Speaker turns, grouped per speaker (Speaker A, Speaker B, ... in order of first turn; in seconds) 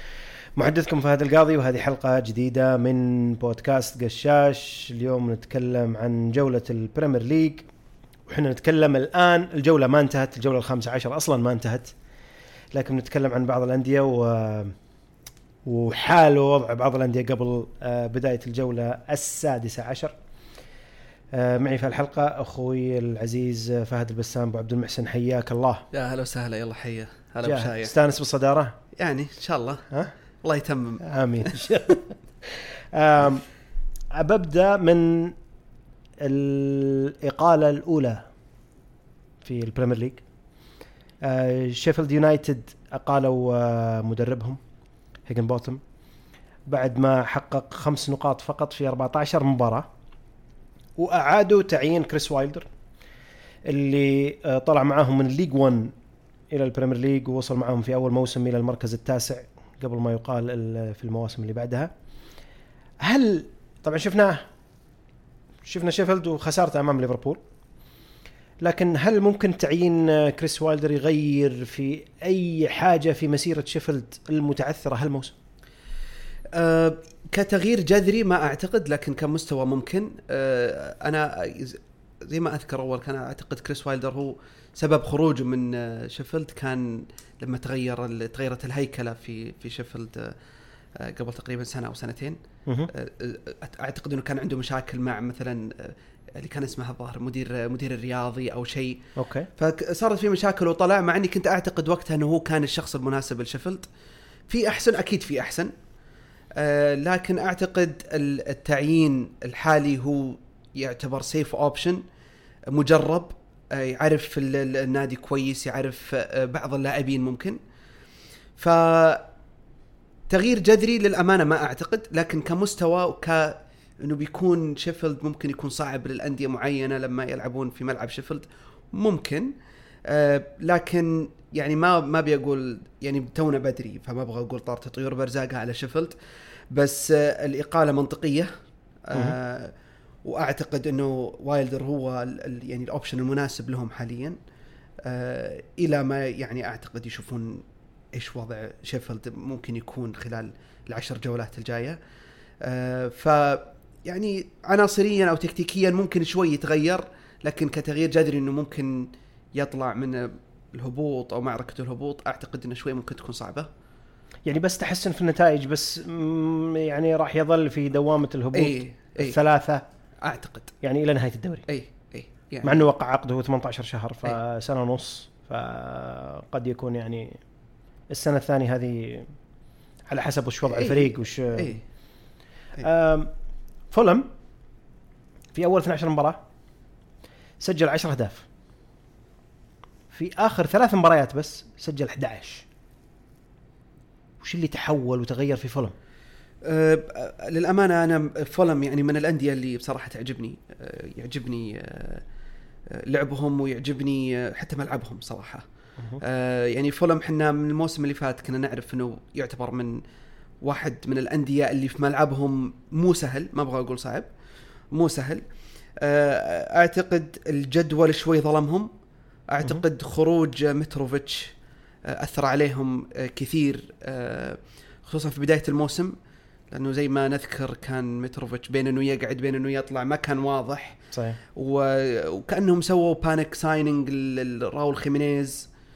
Speaker A: 0.6-7.7, 8.3-11.9, 12.7-14.8, 15.7-20.1, 21.3-25.9, 27.4-28.8, 31.0-33.5, 34.1-35.4, 36.2-38.2, 39.4-40.2, 41.2-44.6, 45.3-45.8, 46.7-49.9, 51.0-52.7, 53.7-55.9, 56.5-61.9, 63.0-64.5, 65.7-67.4, 68.6-75.3, 99.2-99.5, 164.4-169.8, 170.8-171.7, 172.6-177.4, 178.1-179.3, 180.1-181.8, 182.8-183.3, 183.9-184.3, 185.6-186.4, 187.6-188.5, 190.1-192.7, 194.4-195.9, 231.1-231.4
Speaker B: 25.9-27.9, 29.0-29.9, 30.4-31.7, 76.5-90.3, 91.0-92.4, 92.9-99.0, 99.6-103.9, 104.5-105.7, 106.6-112.0, 112.7-117.6, 118.6-119.3, 120.3-129.5, 130.1-136.2, 136.7-138.5, 139.1-144.4, 145.0-152.0, 152.6-163.7, 168.5-169.4, 170.2-170.7, 171.7-172.8, 180.7-181.8, 196.7-202.2, 202.9-205.7, 206.2-210.0, 210.6-214.3, 214.9-215.4, 216.0-218.9, 219.5-221.5, 222.1-226.2, 226.7-231.0, 231.5-235.7